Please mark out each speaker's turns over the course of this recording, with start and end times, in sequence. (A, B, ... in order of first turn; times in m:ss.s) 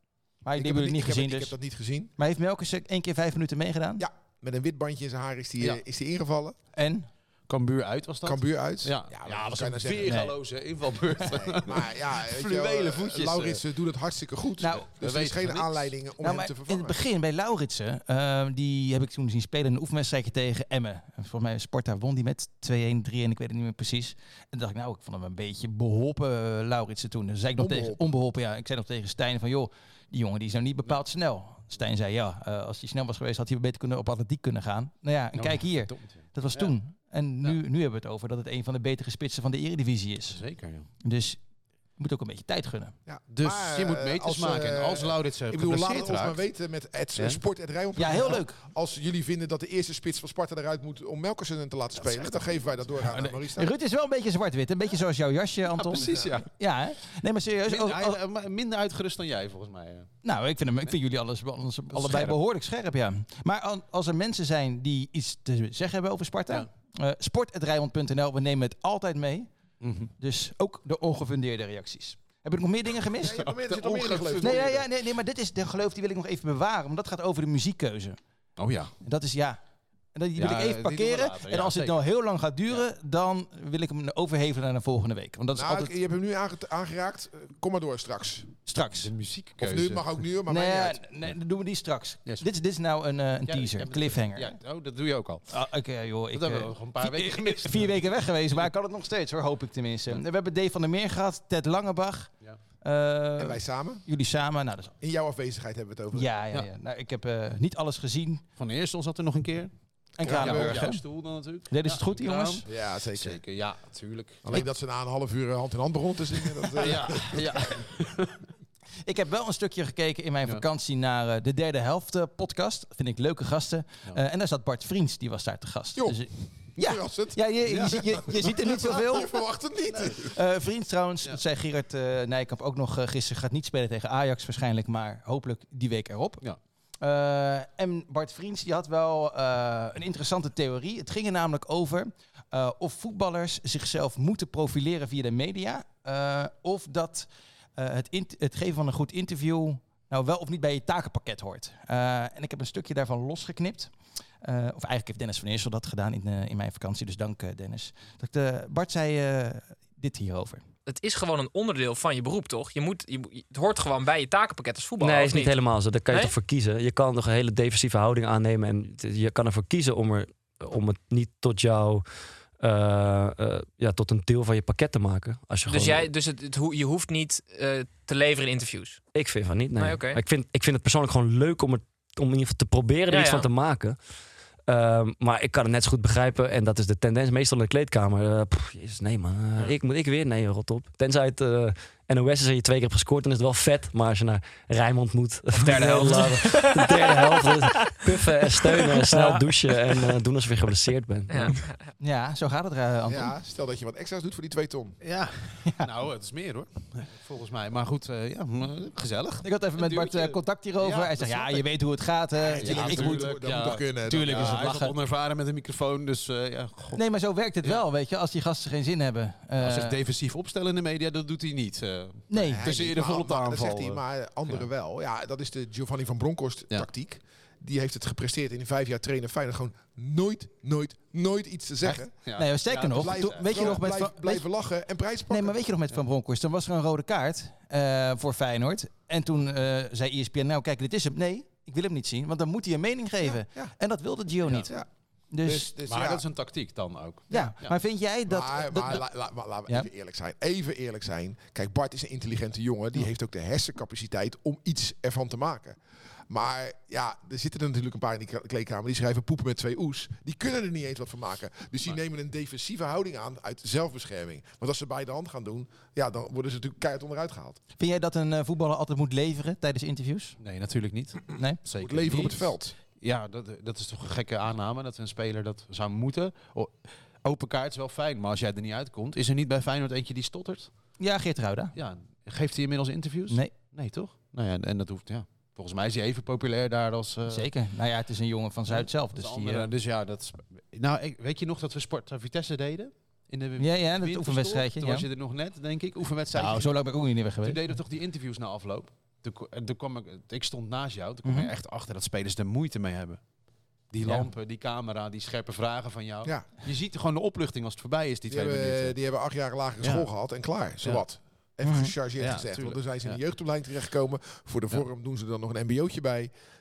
0:00.4-0:01.6 A
0:00.6-0:02.1 B
0:02.2-0:04.1 A
0:04.0-0:06.6 B
0:06.8-0:07.1 A
0:07.5-0:13.6 C
0:08.2-0:10.2 B
0:10.1-0:10.3 A
0:11.3-0:17.0 B
0:14.6-0:14.9 A
0:15.0-0:15.9 C
0:16.2-0:40.4 A
0:27.6-0:28.1 B
0:35.4-0:36.7 C
0:40.3-0:40.9 C
0:41.0-0:41.4 A
0:42.0-0:42.9 A
0:43.1-0:53.7 B
0:43.3-0:46.4 C
0:48.0-0:48.6 A
0:53.2-0:58.2 A
0:55.7-0:56.5 C
0:57.7-1:00.1 C
1:00.2-1:09.5 A
1:01.9-1:02.4 C
1:09.8-1:10.1 C
1:10.2-1:13.4 A
1:13.2-1:14.7 B
1:13.3-1:14.8 C
1:14.4-1:18.2 A
1:18.6-1:18.9 C
1:19.0-1:19.6 A
1:20.2-1:25.9 A
1:20.4-1:22.0 C
1:25.6-1:28.6 B
1:28.7-1:29.1 A
1:28.9-1:30.1 C
1:29.6-1:31.0 B
1:30.5-1:34.6 A
1:33.5-1:35.4 C
1:35.5-1:42.3 A
1:36.3-1:37.9 C
1:42.8-1:44.9 A
1:43.4-1:44.0 B
1:45.0-1:46.3 B
1:46.1-1:48.4 A
1:48.6-1:49.7 C
1:50.2-1:50.9 B
1:50.2-1:51.0 A
1:50.3-1:54.6 C
1:51.7-1:52.6 A
1:52.7-1:53.4 B
1:54.4-1:57.8 B
1:56.8-1:58.4 C
1:59.0-2:09.3 A
2:06.0-2:10.3 B
2:10.2-2:16.4 A
2:17.0-2:33.9 A
2:34.4-2:40.6 A
2:40.9-2:46.3 D
2:45.0-2:52.0 E
2:52.6-2:56.1 E
2:55.7-2:59.0 D
2:59.1-3:04.0 E
2:59.8-3:00.2 D
3:03.1-3:03.5 D
3:04.7-3:21.7 E
3:15.6-3:18.1 D
3:15.6-3:16.3 A
3:19.0-3:19.4 A
3:21.3-3:21.7 D
3:22.0-3:23.3 A
3:23.1-3:25.0 B
3:25.0-3:31.6 C
3:29.4-3:34.9 A
3:32.4-3:34.6 B
3:32.6-3:37.0 C
3:36.9-3:40.0 A
3:39.6-3:44.7 C
3:42.3-3:42.7 A
3:42.4-3:52.1 B
3:51.8-3:53.8 C
3:52.4-3:54.5 A
3:52.9-3:55.6 B
3:55.3-4:04.7 A
4:03.2-4:03.7 B
4:04.6-4:04.9 B
4:05.3-4:05.7 A
4:05.4-4:06.2 B
4:05.9-4:07.7 C
4:07.3-4:09.0 A
4:08.3-4:15.8 B
4:16.3-4:27.6 B
4:27.8-4:30.4 A
4:30.4-4:40.7 C
4:31.8-4:32.8 B
4:41.0-4:41.8 A
4:41.8-4:47.5 C
4:47.3-4:49.7 A
4:48.7-4:56.8 C
4:53.6-4:55.1 A
4:56.3-4:57.6 A
4:57.4-5:03.2 C
5:01.2-5:01.5 A
5:03.9-5:09.0 C
5:08.3-5:16.3 B
5:09.8-5:10.1 C
5:11.6-5:11.9 A
5:12.2-5:13.2 C